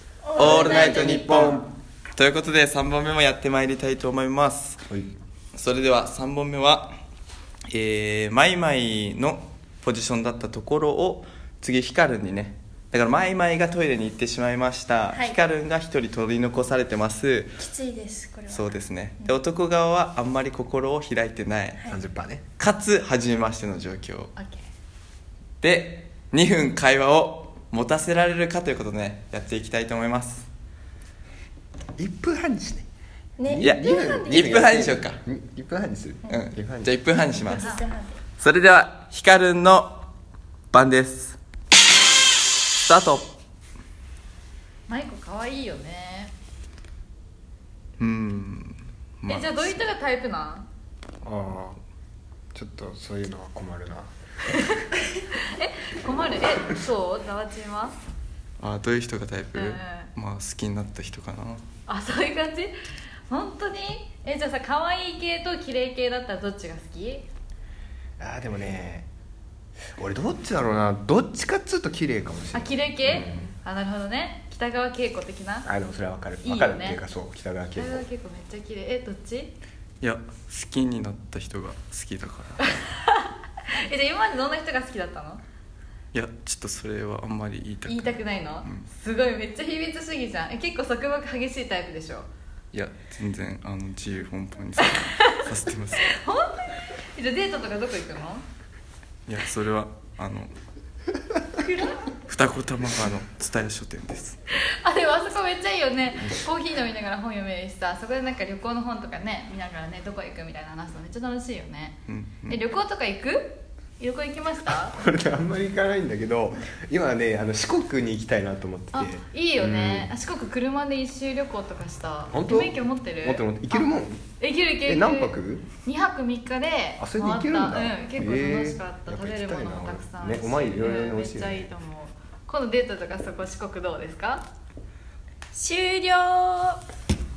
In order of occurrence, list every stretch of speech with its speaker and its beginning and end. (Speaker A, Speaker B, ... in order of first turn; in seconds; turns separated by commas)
Speaker A: 0.2-1.6, Speaker B: 0.3-4.8, Speaker C: 0.4-1.7, Speaker B: 5.5-6.9, Speaker B: 7.7-17.6, Speaker A: 15.1-15.4, Speaker A: 17.6-19.3, Speaker B: 18.5-21.8, Speaker C: 21.9-22.4, Speaker B: 22.6-24.3, Speaker D: 24.4-24.6, Speaker B: 25.6-30.5, Speaker C: 32.0-32.8, Speaker A: 33.4-34.8, Speaker C: 33.5-36.9, Speaker B: 33.6-35.2, Speaker B: 36.3-37.7, Speaker A: 37.1-38.2, Speaker D: 37.3-37.8, Speaker B: 38.4-40.1, Speaker B: 40.7-41.4, Speaker B: 42.9-43.3, Speaker D: 44.9-46.3, Speaker B: 48.0-49.8, Speaker D: 49.3-50.7, Speaker C: 51.2-51.8, Speaker C: 52.5-54.1, Speaker D: 54.5-58.0, Speaker B: 58.6-61.6, Speaker D: 59.5-60.1, Speaker D: 61.9-62.7, Speaker D: 63.3-67.2, Speaker C: 68.2-69.1, Speaker C: 70.0-73.4, Speaker D: 72.5-75.7, Speaker C: 75.6-78.0, Speaker D: 76.4-77.0, Speaker D: 77.8-79.5, Speaker B: 80.0-82.6, Speaker D: 82.7-85.4, Speaker B: 86.1-88.8, Speaker D: 87.9-92.3, Speaker B: 92.7-96.2, Speaker D: 95.0-98.4, Speaker B: 99.3-100.5, Speaker A: 101.5-102.0, Speaker B: 102.3-104.3, Speaker D: 104.7-114.9, Speaker B: 112.1-112.6, Speaker C: 114.9-120.1, Speaker D: 118.9-134.5, Speaker C: 122.3-124.2, Speaker C: 124.8-125.7, Speaker C: 127.0-131.7, Speaker A: 135.5-136.8